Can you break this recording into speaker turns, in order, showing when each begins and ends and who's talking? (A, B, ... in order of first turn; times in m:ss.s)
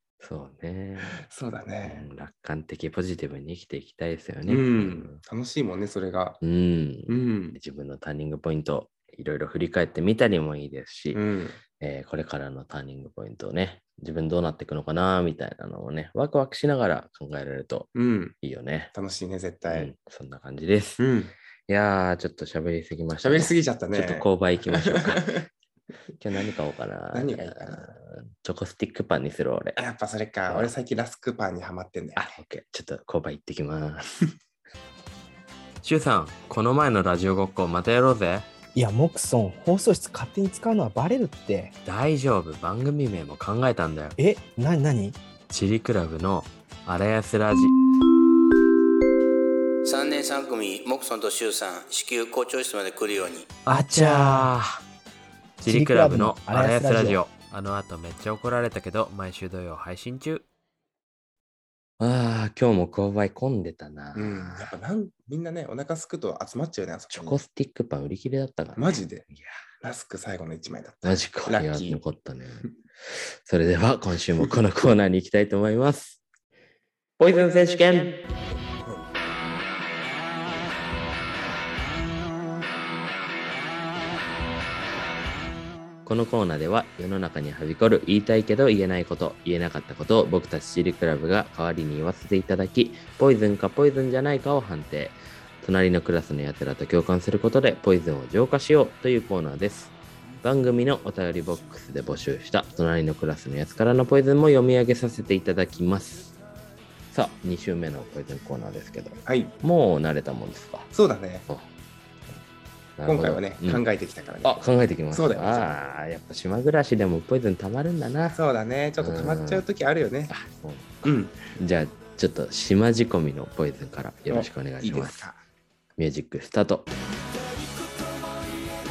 0:00.2-0:01.2 A
0:01.2-0:02.1 B
0:01.8-0:05.2 A
0:04.4-0:06.4 B
0:06.4-0:11.2 A
0:07.1-0:07.6 B
0:11.1-0:11.6 B
0:11.8-0:18.9 A
0:17.9-0:18.3 B
0:18.9-0:19.9 B
0:19.7-0:21.0 A
0:21.0-0:21.3 B
0:21.7-0:25.4 A
0:23.2-0:25.5 B
0:26.2-0:29.8 A
0:27.1-0:27.9 B
0:29.8-0:32.4 B
0:30.5-0:30.7 A
0:32.2-0:34.2 A
0:35.8-0:38.5 A
0:38.8-0:41.7 C
0:41.8-0:44.2 A
0:44.2-0:45.2 C
0:45.5-0:47.7 A
0:49.8-0:53.5 D
0:53.6-0:54.8 A
0:53.7-0:54.5 C
0:55.6-0:57.2 C
0:55.6-1:00.4 A
1:02.0-1:04.7 A
1:04.1-1:07.4 B
1:07.1-1:09.6 A
1:08.8-1:09.3 B
1:09.8-1:12.0 B
1:11.0-1:16.2 A
1:17.2-1:18.2 A
1:26.0-1:46.3 A
1:47.1-1:50.9 A
1:49.3-1:49.5 B
1:50.9-1:51.5 B
1:53.0-1:53.8 A
1:53.0-1:54.6 B
1:54.4-1:58.4 A
1:55.1-1:55.7 B
1:58.3-2:00.3 B
1:59.0-1:59.6 A
2:00.3-2:05.2 A
2:01.0-2:01.4 B
2:04.3-2:05.4 B
2:06.0-2:06.9 A